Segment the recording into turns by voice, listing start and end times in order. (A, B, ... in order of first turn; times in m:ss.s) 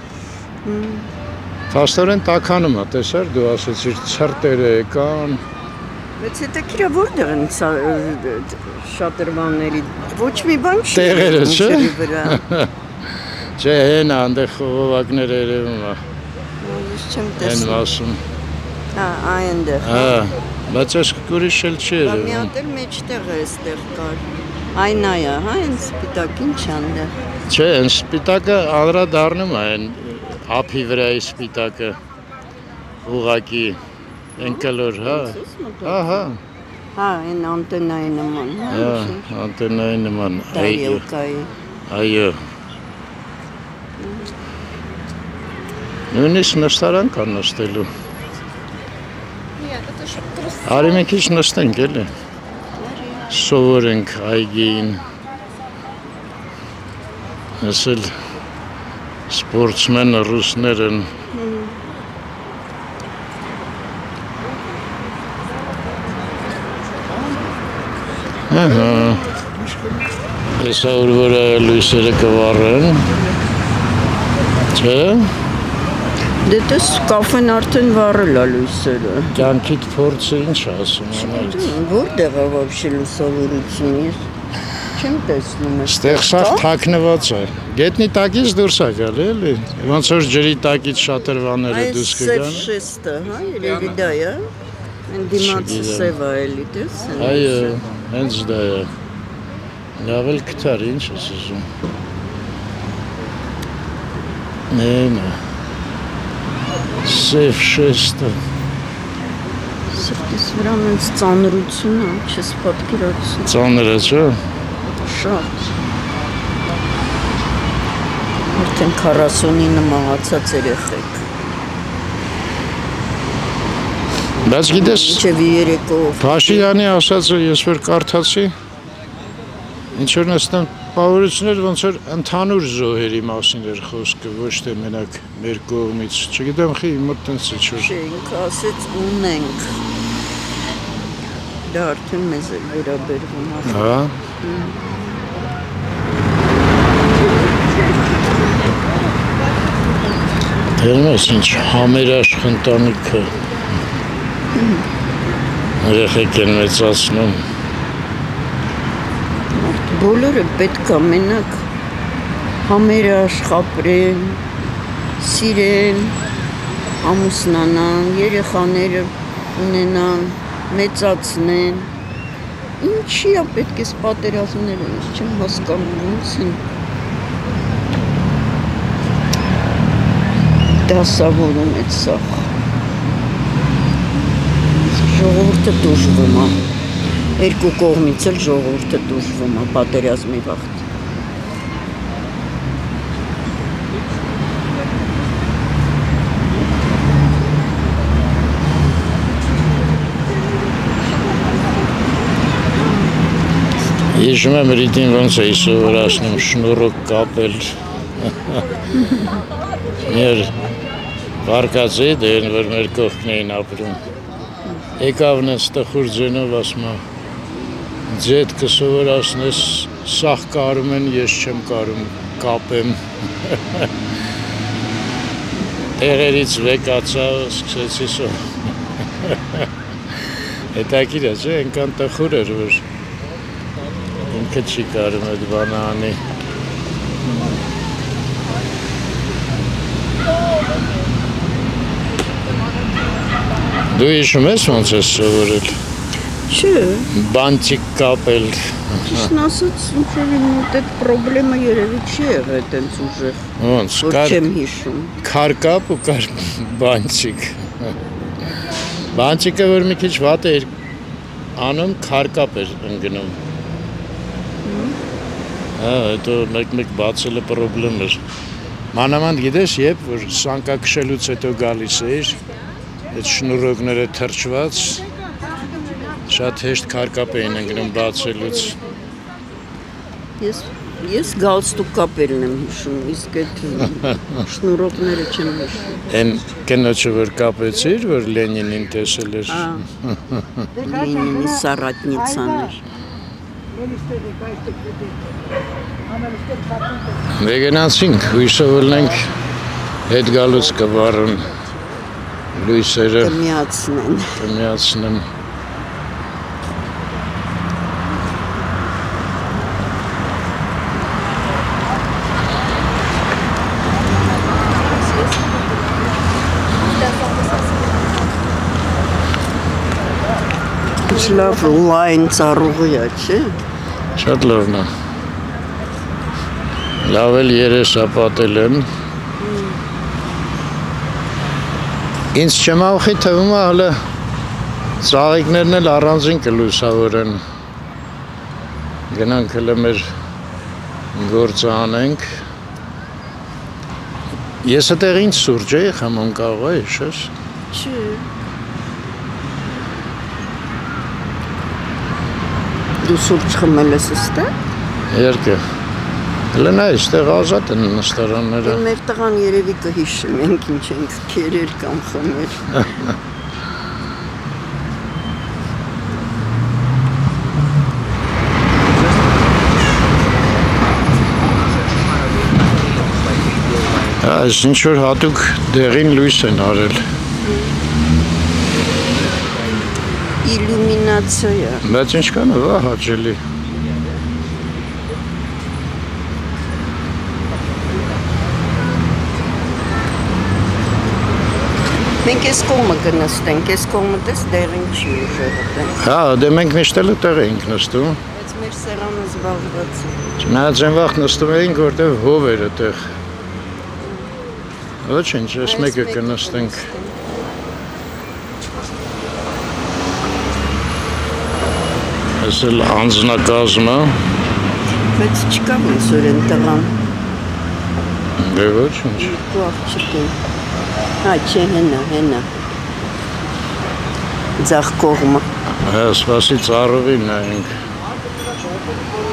0:00.6-0:01.1 A
0:01.7-0:05.4 B
0:06.2-0:12.4 A
0:10.9-0:16.0 B
0:16.6-0:17.8 A
0:17.4-0:18.2 B
0:18.9-0:20.2 A
0:19.8-0:22.5 B
0:22.0-0:27.1 A
0:27.5-0:32.0 B
0:33.0-0:33.8 B
0:34.4-0:36.4 B
0:34.4-0:36.2 A
0:36.9-0:39.2 A
0:38.7-0:41.0 B
0:40.5-0:41.5 A
0:41.9-0:42.4 B
0:44.0-0:44.3 A
0:46.1-0:47.9 B
0:50.6-0:52.1 B
0:52.8-0:53.3 A
0:53.3-0:55.0 B
0:57.6-0:58.1 B
0:59.3-1:01.1 B
1:01.3-1:01.8 A
1:08.5-1:09.3 B
1:10.6-1:13.1 B
1:14.7-1:15.3 B
1:16.4-1:19.4 A
1:19.3-1:21.7 B
1:21.1-1:24.3 A
1:24.9-1:26.7 A
1:25.8-1:32.7 B
1:31.7-1:34.4 A
1:35.1-1:37.8 A
1:35.3-1:36.1 B
1:37.2-1:38.9 B
1:40.0-1:41.7 B
1:44.7-1:45.4 B
1:47.0-1:48.4 B
1:49.9-1:53.5 A
1:53.4-1:54.4 B
1:55.0-1:55.7 A
1:58.5-2:01.2 A
2:04.4-2:05.2 B
2:04.6-2:06.7 A
2:06.2-2:08.5 B
2:09.9-2:17.9 B
2:17.7-2:19.8 A
2:21.6-2:23.8 A
2:23.7-2:24.2 B
2:24.4-2:24.8 A
2:27.2-2:28.4 A
2:30.8-2:33.4 B
2:34.5-2:34.8 A
2:35.8-2:37.4 B
2:39.5-2:41.6 A
2:42.6-2:44.4 A
2:45.2-2:46.2 A
2:47.0-2:51.9 A
2:52.8-2:56.6 A
3:00.8-3:02.5 A
3:04.9-3:06.6 A
3:07.4-3:10.9 A
3:24.1-3:28.6 B
3:29.0-3:29.4 A
3:30.0-3:30.5 B
3:31.4-3:34.0 B
3:35.0-3:37.0 B
3:38.1-3:44.2 B
3:46.0-3:52.8 B
3:54.2-3:56.2 B
4:03.9-4:05.8 B
4:06.5-4:07.1 A
4:07.1-4:09.3 B
4:09.0-4:13.5 A
4:13.6-4:14.4 B
4:14.0-4:15.1 A
4:15.2-4:17.9 B
4:19.1-4:20.7 B
4:21.6-4:23.4 B
4:24.6-4:25.0 A
4:25.8-4:28.2 B
4:28.9-4:32.4 B
4:33.1-4:35.0 B
4:36.3-4:38.8 B
4:40.4-4:46.0 A
4:46.1-4:50.7 B
4:49.5-4:49.8 A
4:50.8-4:52.8 A
4:57.3-4:59.3 B
5:00.1-5:01.5 B
5:02.5-5:03.4 B
5:03.2-5:04.4 A
5:04.4-5:05.3 B
5:21.0-5:23.6 A
5:24.2-5:24.9 B
5:27.0-5:28.9 B
5:29.4-5:29.8 A
5:32.3-5:34.0 B
5:35.0-5:37.4 B
5:39.1-5:40.1 B
5:41.1-5:42.3 B
5:44.6-5:47.3 B
5:47.7-5:48.3 A
5:53.0-5:54.6 A
5:55.1-5:55.6 B
5:56.5-5:58.8 B
5:58.6-6:03.1 A
6:14.0-6:17.0 B
6:17.4-6:17.8 A
6:20.4-6:21.8 A
6:21.8-6:23.4 B
6:32.2-6:36.0 A
6:36.0-6:38.2 B
6:38.3-6:40.3 A
6:40.4-6:43.1 B
6:45.0-6:46.9 B
6:45.6-6:47.2 A
6:52.4-6:54.2 B
6:55.1-6:57.0 A
6:58.4-6:59.4 B
6:59.2-7:00.4 A
7:01.2-7:02.5 A
7:04.6-7:05.5 A
7:05.8-7:07.7 B